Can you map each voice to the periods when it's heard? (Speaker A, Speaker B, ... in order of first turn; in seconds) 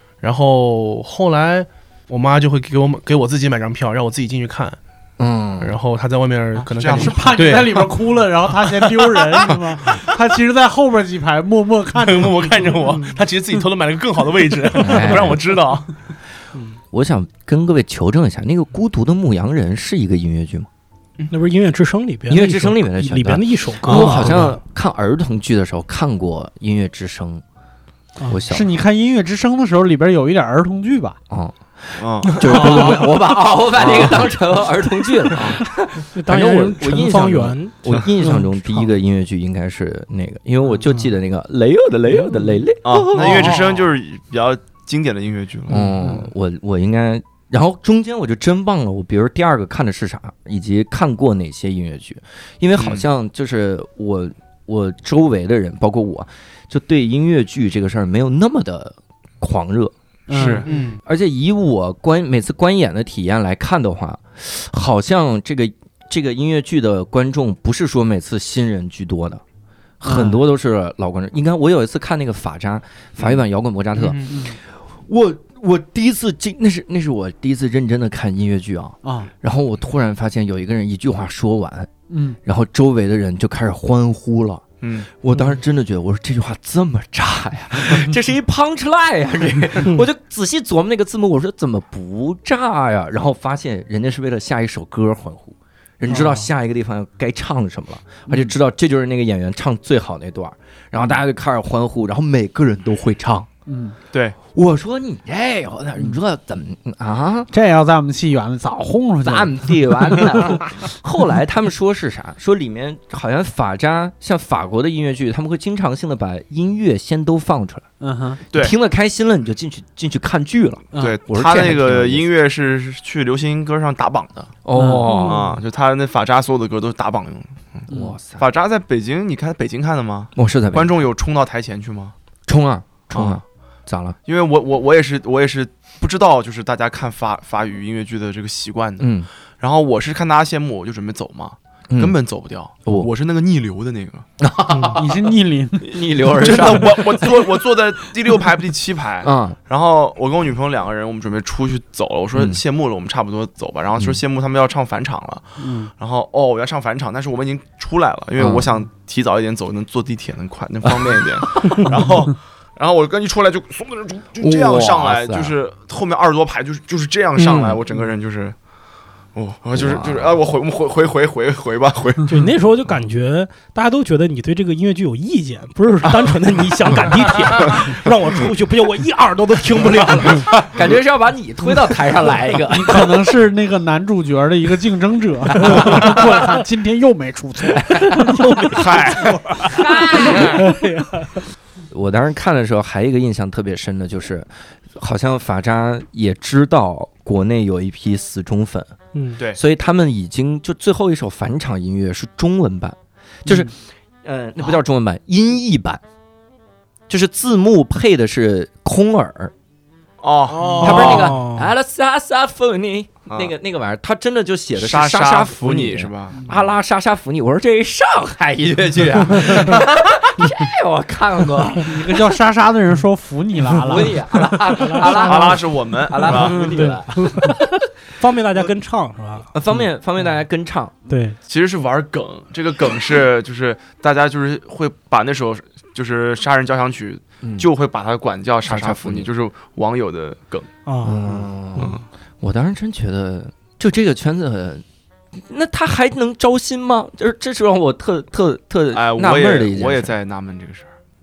Speaker A: 0.2-4.8, 5.6-7.9, 8.8-9.4, 11.9-15.9, 43.4-43.7, 60.6-61.0, 74.0-74.4, 167.4-167.7, 210.5-211.3
Speaker B: 5.2-5.8, 14.8-15.4, 16.9-20.7, 22.3-27.4, 28.3-28.7, 31.3-43.6, 45.7-69.4, 70.0-81.9, 82.4-84.7, 85.2-103.5, 104.5-107.5, 109.2-117.9, 118.5-122.3, 124.7-125.4, 127.9-128.4, 130.4-131.0, 132.5-134.2, 139.0-139.3, 141.9-142.2, 142.8-143.1, 144.4-147.3, 149.2-149.6, 152.3-152.6, 158.4-158.7, 164.4-165.5, 167.5-167.8, 169.8-170.3, 180.1-183.2, 185.6-186.0, 187.7-188.8, 189.6-190.7, 191.9-198.9, 199.5-206.0, 207.1-209.5, 210.8-222.2, 223.7-227.6, 229.5-230.9, 237.4-237.7, 238.7-239.3, 241.0-244.8, 245.4-250.2
Speaker C: 6.6-7.7, 23.8-24.5, 32.0-32.4, 33.8-34.2, 35.4-35.6, 42.8-46.3, 52.8-53.1, 60.3-60.7, 84.8-85.1, 104.1-104.4, 120.9-124.6, 125.2-127.9, 128.4-132.2, 133.1-133.4, 134.2-144.3, 146.4-168.6, 169.3-172.4, 188.7-189.5, 210.2-211.3, 213.3-213.5, 214.7-216.4, 225.0-226.6, 231.5-240.7, 241.8-242.1, 248.9-250.9
Speaker D: 6.9-12.8, 28.5-31.2, 32.5-33.1, 60.3-60.9, 70.0-70.5, 74.2-74.6, 79.0-79.3, 82.1-82.4, 85.3-85.6, 103.7-104.0, 107.5-110.8, 118.0-118.4, 120.9-121.2, 124.8-125.3, 144.9-146.0, 155.6-155.9, 182.7-188.9, 221.8-225.2
Speaker E: 12.9-13.2, 21.3-24.5, 36.1-38.4, 40.8-41.1, 96.1-96.5, 125.2-125.5, 144.7-145.0, 172.3-180.7, 188.9-191.4, 199.1-199.4, 210.8-211.7, 224.9-225.6, 226.2-229.5, 231.1-231.4, 240.9-241.4